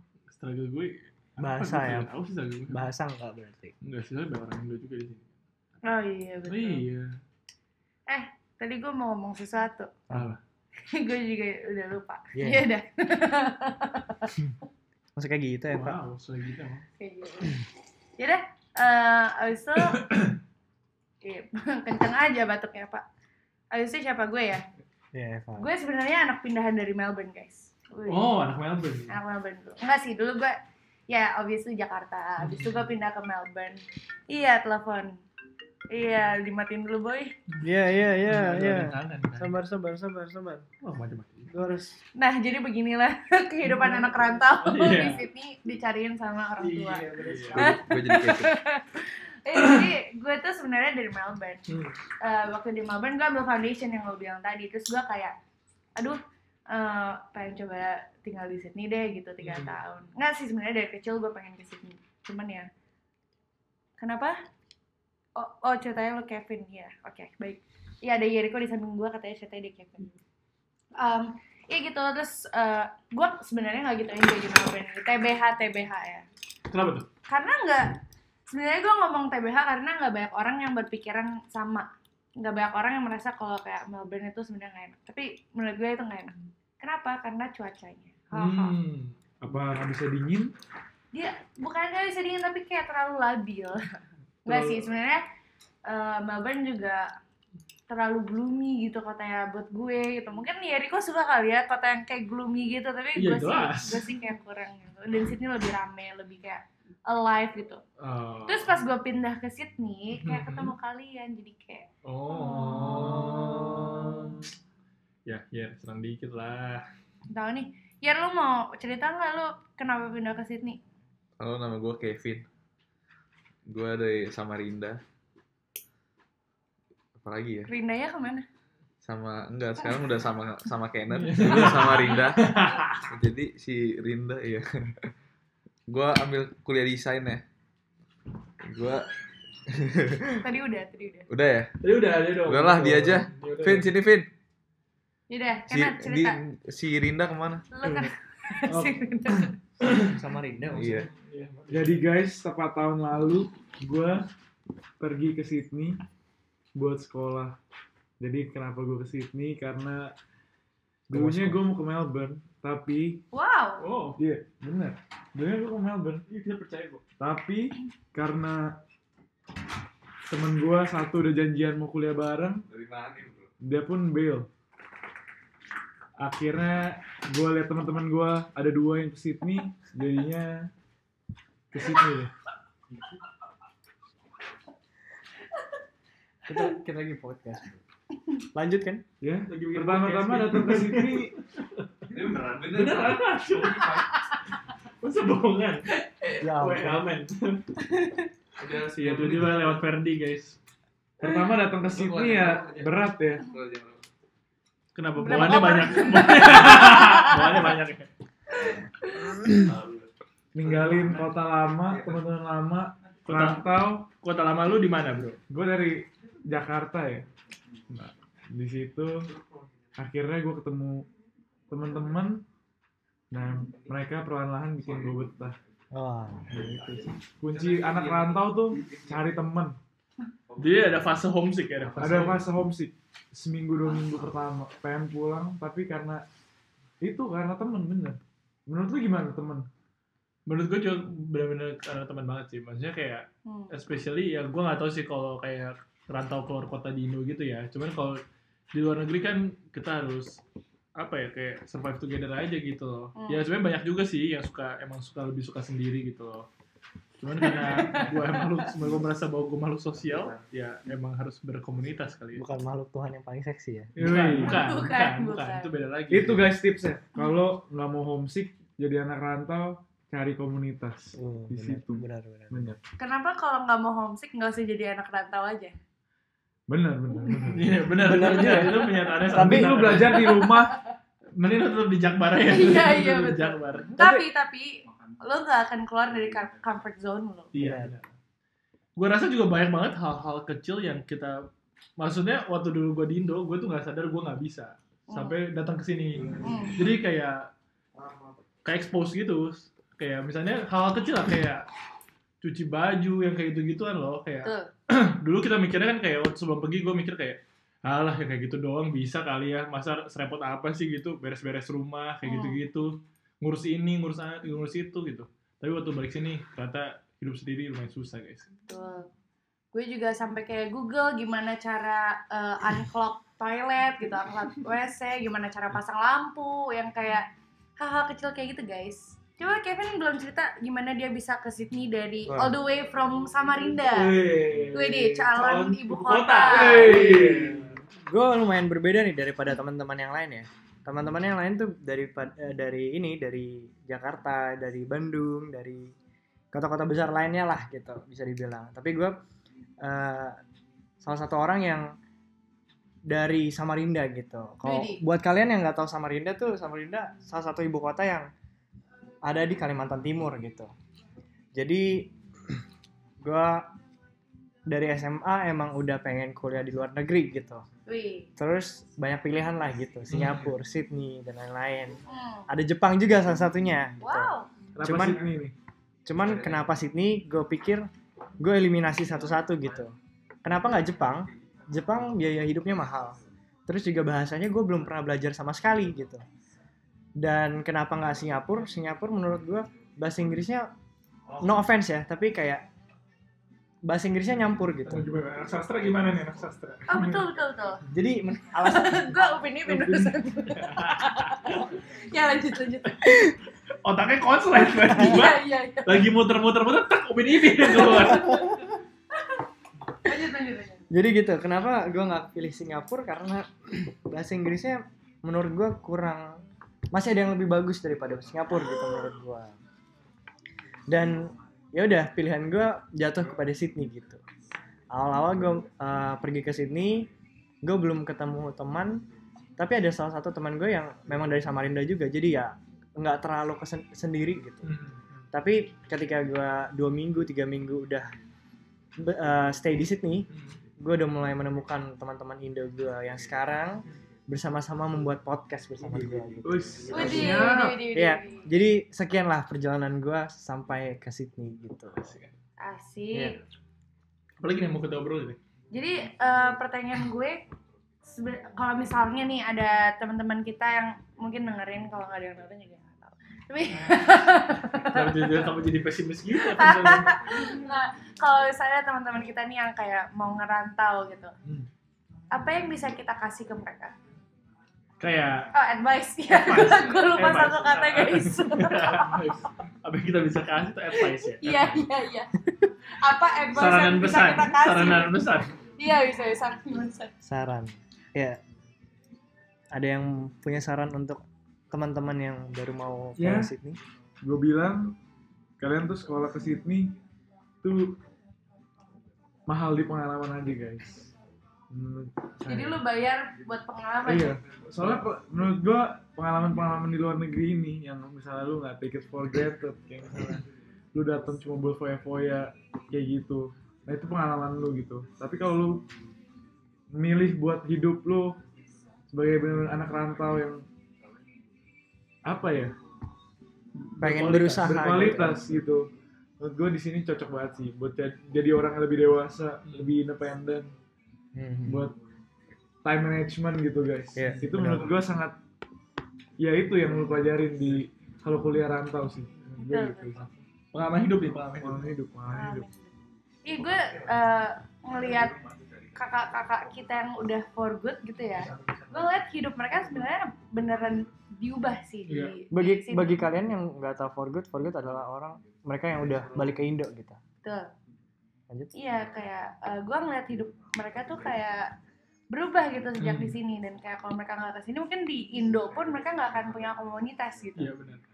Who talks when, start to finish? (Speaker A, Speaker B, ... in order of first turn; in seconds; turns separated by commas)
Speaker A: 0.3-2.9, Speaker B: 1.4-2.1, Speaker B: 2.7-3.7, Speaker A: 3.8-5.3, Speaker C: 5.8-6.8, Speaker A: 6.5-7.2, Speaker C: 8.1-9.9, Speaker A: 10.1-10.4, Speaker C: 10.8-14.3, Speaker B: 12.3-12.7, Speaker B: 15.2-16.0, Speaker A: 15.7-16.8, Speaker C: 17.0-17.6, Speaker C: 18.2-20.0, Speaker A: 19.8-20.4, Speaker C: 21.2-23.1, Speaker C: 23.7-24.6, Speaker B: 25.1-25.7, Speaker C: 25.6-28.3, Speaker A: 28.1-29.1, Speaker C: 29.1-30.6, Speaker C: 31.1-35.2, Speaker A: 32.5-32.8, Speaker C: 35.9-37.4, Speaker B: 37.6-40.7, Speaker A: 38.2-39.6, Speaker A: 40.8-41.5, Speaker B: 41.5-42.0, Speaker C: 42.2-51.6, Speaker A: 44.6-45.3, Speaker A: 46.6-47.8, Speaker B: 47.2-47.5, Speaker D: 47.5-48.5, Speaker C: 52.2-55.4, Speaker C: 56.0-62.7, Speaker A: 59.4-59.7, Speaker C: 64.0-64.4, Speaker C: 65.4-70.1, Speaker C: 71.0-76.3, Speaker A: 76.7-77.1, Speaker C: 77.3-78.0, Speaker C: 78.5-88.8, Speaker A: 88.3-89.2, Speaker E: 89.4-90.5, Speaker C: 91.1-93.9, Speaker C: 94.5-95.2, Speaker C: 95.9-97.1, Speaker C: 97.9-107.8, Speaker A: 103.2-104.0, Speaker A: 108.0-108.8, Speaker C: 108.5-113.1, Speaker A: 110.2-110.7, Speaker A: 112.0-114.5, Speaker A: 115.3-116.9, Speaker C: 117.3-120.8, Speaker D: 121.4-122.5, Speaker D: 123.7-125.0, Speaker D: 127.2-127.7, Speaker C: 127.7-128.5, Speaker D: 129.0-132.5, Speaker A: 131.1-133.1, Speaker D: 133.1-135.1, Speaker D: 135.9-137.4, Speaker D: 138.6-139.1, Speaker D: 139.7-140.4, Speaker C: 140.4-141.3, Speaker D: 141.3-141.7, Speaker A: 141.8-143.9, Speaker D: 142.4-144.3, Speaker C: 145.3-146.4, Speaker D: 145.7-147.7, Speaker C: 147.7-149.6, Speaker A: 149.8-150.2, Speaker B: 149.8-150.9, Speaker A: 150.7-152.1, Speaker D: 150.8-151.1, Speaker E: 151.7-154.3, Speaker E: 155.0-156.0, Speaker E: 156.8-157.6, Speaker E: 158.2-160.1, Speaker E: 161.1-163.2, Speaker B: 161.1-161.7, Speaker C: 163.3-163.9, Speaker A: 163.8-164.2, Speaker E: 164.2-166.2, Speaker A: 166.3-167.0, Speaker E: 167.2-168.8, Speaker E: 170.3-172.7, Speaker D: 172.7-173.5, Speaker E: 173.6-174.5, Speaker E: 176.2-180.7, Speaker E: 181.7-182.3, Speaker B: 186.5-187.7, Speaker B: 188.5-189.0, Speaker E: 189.2-191.3, Speaker A: 189.5-191.9, Speaker D: 192.1-194.1, Speaker A: 192.7-194.1, Speaker A: 195.0-197.6, Speaker B: 196.4-197.0, Speaker D: 198.6-199.8, Speaker A: 198.9-200.6, Speaker E: 201.2-203.4, Speaker D: 201.8-204.0, Speaker A: 204.9-208.1, Speaker C: 205.2-207.6, Speaker C: 209.0-209.4, Speaker D: 209.5-210.1, Speaker E: 210.5-214.1, Speaker D: 210.7-210.9, Speaker A: 213.3-215.4, Speaker E: 215.5-217.3, Speaker E: 217.9-219.3, Speaker E: 220.0-221.1, Speaker E: 221.7-222.4, Speaker E: 223.3-225.6, Speaker B: 225.9-226.8, Speaker E: 226.8-229.8, Speaker A: 230.6-232.5, Speaker E: 232.0-236.2, Speaker E: 237.0-239.7, Speaker A: 240.5-248.2, Speaker C: 243.5-243.7, Speaker A: 248.7-250.4, Speaker A: 251.0-256.5, Speaker C: 253.2-253.4, Speaker A: 257.2-262.4, Speaker C: 257.4-258.6, Speaker B: 262.4-263.9, Speaker A: 264.0-266.6, Speaker E: 264.0-264.6, Speaker C: 264.4-265.7, Speaker E: 266.1-272.8, Speaker B: 271.2-272.7, Speaker C: 273.0-275.8, Speaker E: 276.7-278.6, Speaker A: 277.2-280.5, Speaker B: 278.0-280.0, Speaker E: 279.3-280.8, Speaker C: 280.2-280.8, Speaker A: 281.4-284.0, Speaker C: 282.4-287.5, Speaker B: 284.0-284.2, Speaker A: 287.5-288.1, Speaker B: 287.6-287.9, Speaker A: 289.0-297.5, Speaker C: 295.1-295.4, Speaker C: 296.4-296.8, Speaker A: 298.6-301.7, Speaker A: 302.4-318.5, Speaker C: 304.4-304.7, Speaker C: 312.2-312.6, Speaker C: 318.7-319.1, Speaker C: 319.7-327.3, Speaker C: 327.8-337.1, Speaker B: 332.3-332.5, Speaker E: 333.9-335.2, Speaker A: 334.2-337.7, Speaker E: 336.5-337.7, Speaker B: 336.8-345.9, Speaker B: 346.5-349.2, Speaker B: 349.8-350.4, Speaker B: 351.0-351.9, Speaker B: 353.1-358.3, Speaker C: 354.6-355.0, Speaker B: 359.2-360.7, Speaker B: 361.6-362.1, Speaker B: 363.2-363.7, Speaker B: 364.7-367.6, Speaker C: 367.9-368.3, Speaker B: 368.4-375.3, Speaker A: 370.1-370.4, Speaker C: 372.1-372.5, Speaker C: 374.0-374.5, Speaker E: 374.8-375.5, Speaker B: 376.1-377.9, Speaker B: 378.4-386.2, Speaker B: 387.2-390.7, Speaker B: 391.4-392.7, Speaker B: 393.8-395.1, Speaker A: 394.9-397.3, Speaker C: 396.9-397.8, Speaker B: 397.9-400.0, Speaker C: 398.6-403.3, Speaker A: 400.5-401.0, Speaker A: 403.8-408.6, Speaker C: 404.9-406.1, Speaker C: 407.8-408.4, Speaker C: 410.1-410.9, Speaker B: 410.9-419.6, Speaker B: 420.9-424.2, Speaker B: 424.9-427.1, Speaker B: 427.6-429.1, Speaker B: 429.6-434.7, Speaker A: 434.6-435.2, Speaker B: 435.3-438.1, Speaker B: 439.0-440.3, Speaker A: 440.3-440.6, Speaker B: 440.8-452.1, Speaker E: 446.4-447.8, Speaker C: 446.9-448.5, Speaker A: 452.0-452.3, Speaker C: 452.6-453.4, Speaker A: 454.4-455.4, Speaker C: 455.7-457.4, Speaker C: 458.1-465.3, Speaker A: 464.8-467.5, Speaker C: 466.4-471.3, Speaker C: 472.3-473.9, Speaker A: 475.0-475.5, Speaker C: 475.5-479.2, Speaker A: 476.3-481.8, Speaker C: 481.4-482.3, Speaker C: 483.0-485.2, Speaker A: 483.5-485.6, Speaker C: 485.8-487.1, Speaker B: 487.2-488.4, Speaker B: 489.7-493.8, Speaker E: 493.2-493.5, Speaker E: 494.2-495.0, Speaker E: 495.6-496.9, Speaker E: 497.6-498.0, Speaker E: 499.5-501.1, Speaker E: 501.7-502.8, Speaker C: 502.5-504.4, Speaker E: 504.0-515.9, Speaker E: 516.9-518.4, Speaker E: 519.1-520.7, Speaker E: 522.2-522.8, Speaker A: 523.9-524.8, Speaker B: 524.0-525.5, Speaker E: 524.2-530.7, Speaker B: 531.3-531.9, Speaker E: 531.7-532.0, Speaker E: 532.8-535.4, Speaker B: 534.2-535.0, Speaker E: 536.4-540.3, Speaker C: 539.6-540.2, Speaker A: 540.7-541.9, Speaker E: 541.6-542.7, Speaker C: 542.3-542.9, Speaker C: 543.5-545.4, Speaker C: 546.0-553.2, Speaker A: 552.1-552.3, Speaker B: 552.5-557.2, Speaker C: 557.4-557.7, Speaker B: 558.5-558.8, Speaker C: 558.7-561.7, Speaker C: 562.3-567.7, Speaker A: 563.0-563.4, Speaker A: 567.6-568.0